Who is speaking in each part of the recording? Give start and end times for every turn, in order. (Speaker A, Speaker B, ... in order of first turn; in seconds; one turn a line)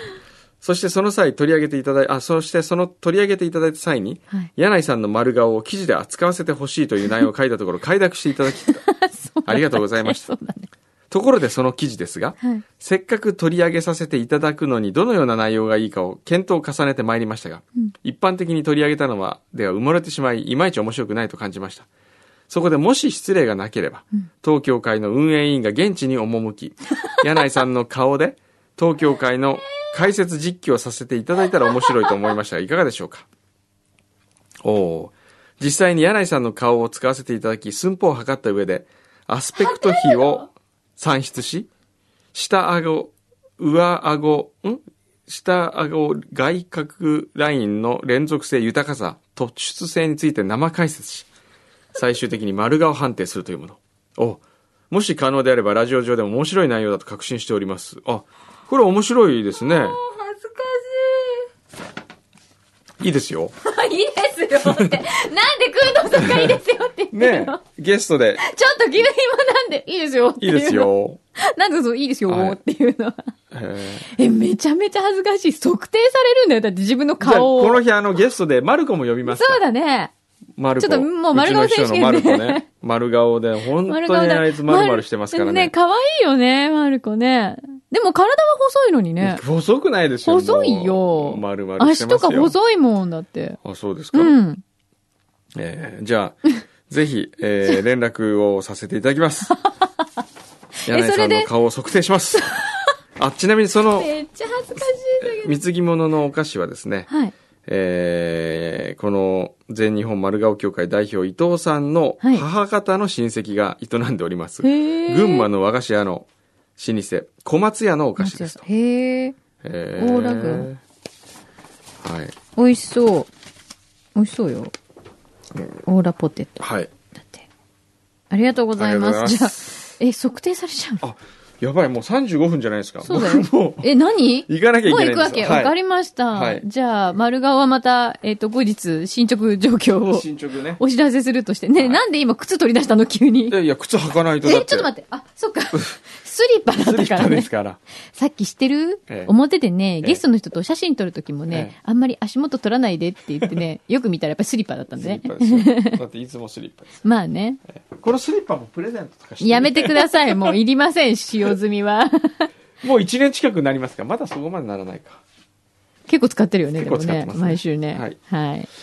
Speaker A: 0.6-8.8
Speaker B: 8.5-10.7
Speaker A: 9.5-10.3
Speaker A: 11.1-21.9
Speaker B: 12.4-12.6
Speaker A: 22.5-33.3
Speaker A: 34.6-41.7
Speaker B: 39.6-40.4
Speaker A: 42.3-51.3
Speaker A: 51.9-60.0
Speaker B: 59.5-61.5
Speaker A: 63.0-63.5
Speaker B: 63.6-67.6
Speaker A: 66.2-66.6
Speaker A: 67.1-68.4
Speaker B: 68.4-73.3
Speaker A: 70.4-71.2
Speaker A: 72.3-72.6
Speaker A: 73.5-74.1
Speaker B: 74.0-77.8
Speaker A: 77.2-79.6
Speaker B: 79.2-80.1
Speaker A: 80.6-85.7
Speaker B: 80.8-82.6
Speaker B: 83.8-89.4
Speaker A: 89.2-92.6
Speaker B: 90.2-93.6
Speaker A: 93.6-94.4
Speaker B: 94.1-94.6
Speaker A: 95.5-99.5
Speaker B: 99.5-99.8
Speaker B: 100.8-101.5
Speaker A: 100.9-102.5
Speaker B: 102.4-102.9
Speaker A: 103.2-104.1
Speaker B: 104.0-105.6
Speaker A: 105.2-107.1
Speaker B: 107.1-107.3
Speaker A: 107.7-118.7
Speaker B: 112.2-112.5
Speaker B: 114.6-115.5
Speaker B: 118.2-119.4
Speaker A: 119.6-120.8
Speaker B: 120.0-120.7
Speaker A: 122.0-122.4
Speaker B: 122.6-123.3
Speaker B: 124.2-124.7
Speaker B: 125.8-127.5
Speaker A: 126.6-126.9
Speaker B: 128.3-131.0
Speaker A: 128.8-129.7
Speaker A: 131.0-133.9
Speaker B: 133.0-143.6
Speaker A: 134.5-135.7
Speaker A: 136.3-136.7
Speaker A: 140.0-140.8
Speaker A: 141.8-142.0
Speaker A: 143.5-144.9
Speaker B: 144.4-147.5
Speaker A: 146.7-147.8
Speaker B: 148.1-156.0
Speaker A: 151.5-151.8
Speaker A: 155.0-157.1
Speaker B: 157.0-157.6
Speaker A: 157.7-160.6
Speaker B: 159.4-162.5
Speaker A: 162.8-165.2
Speaker B: 166.1-168.7
Speaker A: 166.8-168.2